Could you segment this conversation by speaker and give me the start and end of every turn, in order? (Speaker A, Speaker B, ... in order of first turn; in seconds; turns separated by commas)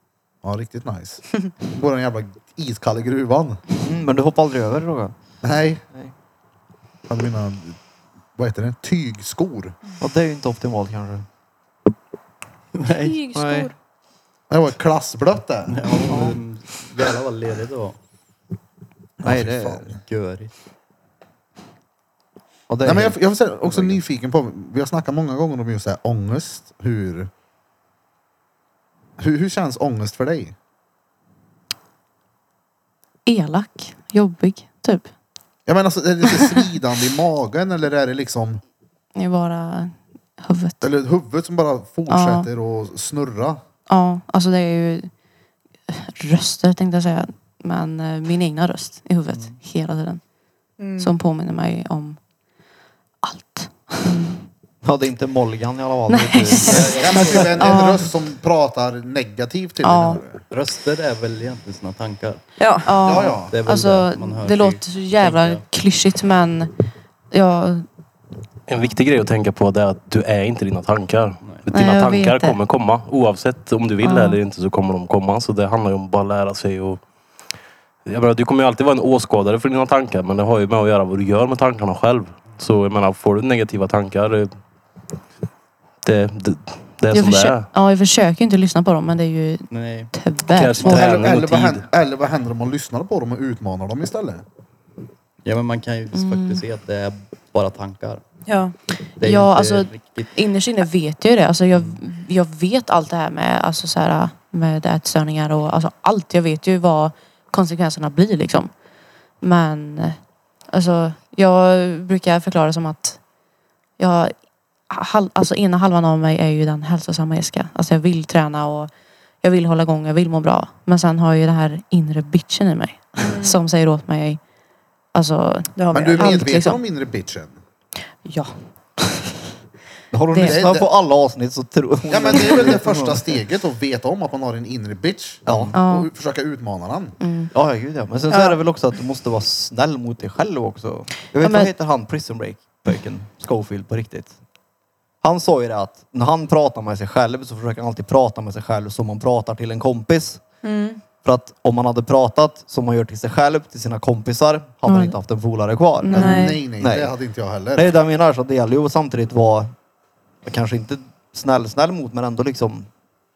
Speaker A: 0.4-3.6, Speaker B: 3.8-5.1, Speaker A: 5.4-5.8, Speaker A: 7.1-7.8, Speaker A: 8.4-9.8, Speaker B: 10.0-11.3, Speaker C: 12.8-13.2, Speaker D: 13.0-13.7, Speaker B: 13.2-13.7, Speaker A: 14.5-16.3, Speaker C: 15.7-18.0, Speaker A: 19.2-19.9, Speaker B: 19.2-19.9, Speaker C: 19.9-20.5, Speaker B: 22.7-24.0, Speaker A: 22.8-27.3, Speaker A: 29.2-30.6, Speaker E: 33.3-35.1, Speaker A: 35.7-38.6, Speaker E: 39.1-40.8, Speaker A: 40.8-43.6, Speaker E: 42.1-42.5, Speaker E: 43.9-45.1, Speaker E: 45.9-50.2, Speaker C: 49.3-49.6, Speaker D: 50.8-51.1, Speaker E: 51.0-52.2, Speaker E: 53.2-54.4, Speaker B: 54.8-57.2, Speaker E: 56.1-58.0, Speaker C: 56.7-57.8, Speaker A: 57.0-60.4, Speaker E: 59.8-60.2, Speaker C: 60.5-62.4, Speaker D: 62.6-63.0, Speaker E: 62.9-66.7, Speaker A: 63.0-63.5, Speaker C: 63.5-65.6, Speaker E: 67.3-67.9, Speaker F: 68.7-77.0, Speaker C: 71.4-71.7, Speaker E: 71.7-72.6, Speaker E: 74.0-74.4, Speaker F: 78.1-84.5, Speaker F: 86.0-87.7, Speaker E: 87.1-91.2, Speaker C: 89.7-90.1, Speaker F: 90.5-91.8, Speaker A: 90.8-94.4, Speaker C: 95.4-98.2, Speaker E: 96.1-96.6, Speaker D: 98.5-98.8, Speaker C: 99.2-100.3, Speaker E: 99.2-108.7, Speaker C: 101.7-102.0, Speaker E: 109.4-110.2, Speaker E: 110.7-113.2, Speaker E: 114.0-114.4, Speaker E: 114.9-118.9, Speaker E: 119.4-124.4, Speaker D: 123.2-123.6, Speaker E: 125.1-126.8, Speaker D: 125.8-126.5, Speaker A: 125.9-127.6, Speaker E: 128.2-128.5, Speaker B: 130.1-133.4, Speaker E: 130.3-130.6, Speaker A: 130.4-130.9, Speaker A: 132.1-137.2, Speaker B: 135.5-135.8, Speaker E: 135.7-136.1, Speaker E: 137.2-137.5, Speaker B: 137.5-144.3, Speaker E: 141.4-141.7, Speaker B: 145.2-150.4, Speaker D: 150.6-151.0, Speaker B: 151.2-157.1, Speaker E: 154.9-155.2, Speaker E: 156.0-156.6, Speaker D: 156.1-156.6, Speaker A: 156.2-157.9, Speaker B: 157.8-159.7, Speaker B: 160.4-162.9